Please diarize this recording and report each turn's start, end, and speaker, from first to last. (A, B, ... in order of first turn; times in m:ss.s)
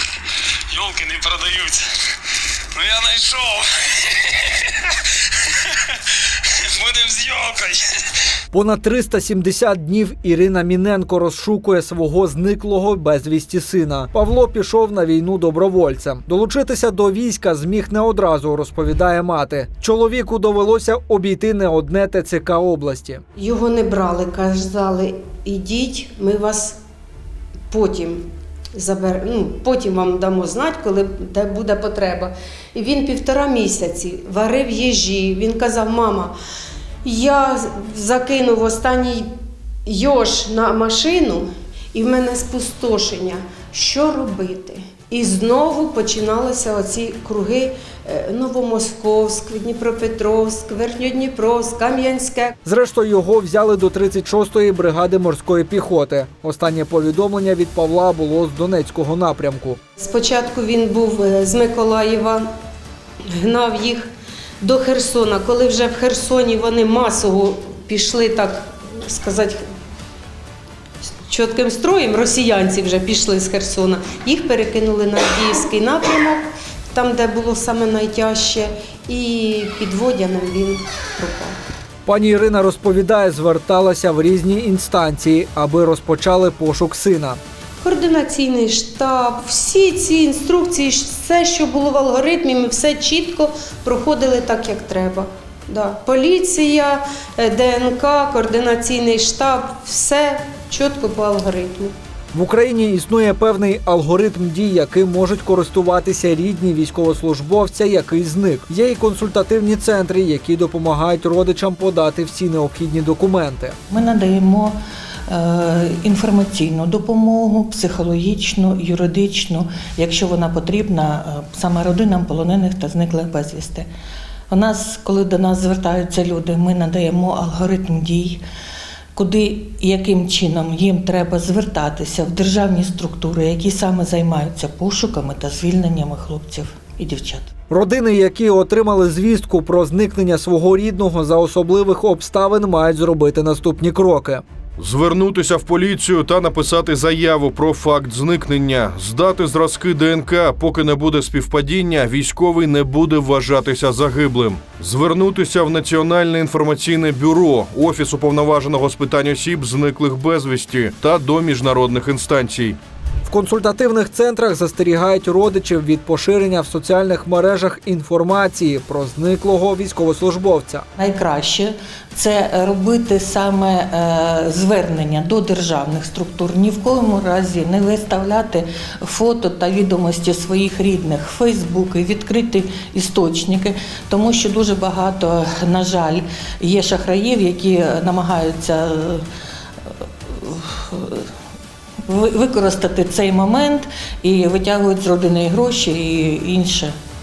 0:00.7-0:05.1 A
0:05.7-0:08.1 A
0:08.5-0:23.2 B
0:23.4-0:26.8 C
0:27.7-0:36.3 C
0:37.0-0:39.3 C
0:39.8-0:52.5 C
0:52.6-0:59.8 B
1:00.0-1:02.4 C
1:03.3-1:04.1 C
1:04.6-1:09.6 C
1:11.0-1:21.6 C
1:22.0-1:27.4 B
1:27.8-1:41.9 C
1:42.3-1:53.8 B
1:53.9-1:54.8 D
1:55.3-2:03.9 D
2:04.5-2:08.4 D
2:09.1-2:17.5 D
2:17.7-2:24.4 B
2:24.8-2:42.8 E
2:43.2-2:50.8 B
2:51.0-3:09.2 D
3:10.3-3:11.3 D
3:12.1-3:17.0 D